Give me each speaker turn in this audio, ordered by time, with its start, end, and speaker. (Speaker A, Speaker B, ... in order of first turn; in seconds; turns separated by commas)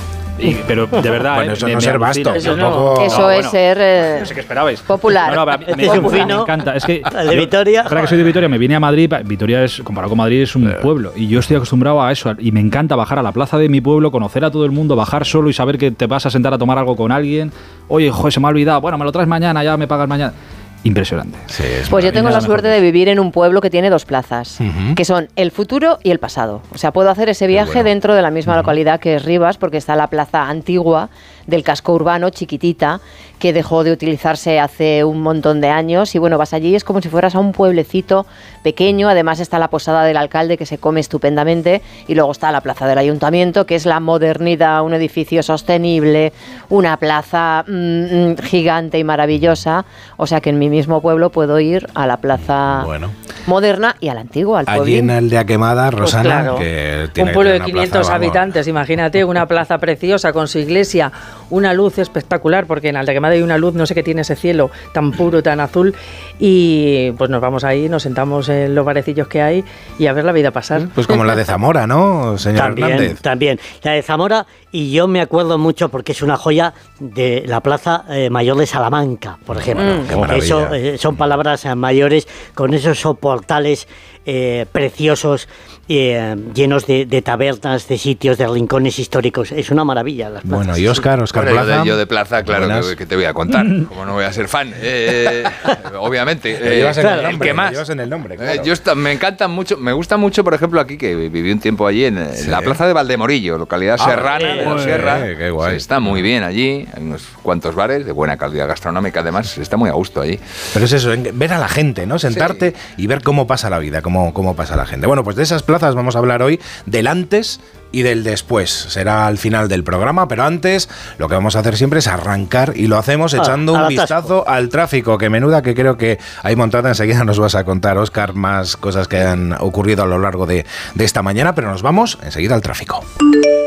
Speaker A: 0.4-21.5, Speaker B: 1.2-3.4, Speaker C: 2.4-2.9, Speaker D: 2.9-4.3, Speaker D: 4.9-6.3, Speaker E: 5.8-6.5, Speaker E: 7.1-8.1, Speaker B: 21.5-22.4, Speaker D: 21.9-52.9, Speaker A: 22.0-22.8, Speaker B: 24.6-25.0, Speaker B: 27.5-27.9, Speaker B: 28.5-28.7, Speaker B: 52.4-53.1, Speaker D: 53.5-55.1, Speaker B: 54.7-58.5, Speaker C: 56.0-56.6, Speaker C: 57.2-71.4, Speaker B: 70.8-73.2, Speaker E: 72.5-90.8, Speaker B: 79.5-80.8, Speaker C: 79.8-80.1, Speaker B: 90.4-92.9, Speaker F: 91.3-97.8, Speaker B: 96.6-98.7, Speaker E: 97.0-97.3, Speaker F: 98.4-110.4, Speaker B: 102.4-102.8, Speaker B: 104.0-105.8, Speaker B: 110.7-133.0, Speaker F: 112.3-112.7, Speaker E: 123.4-124.2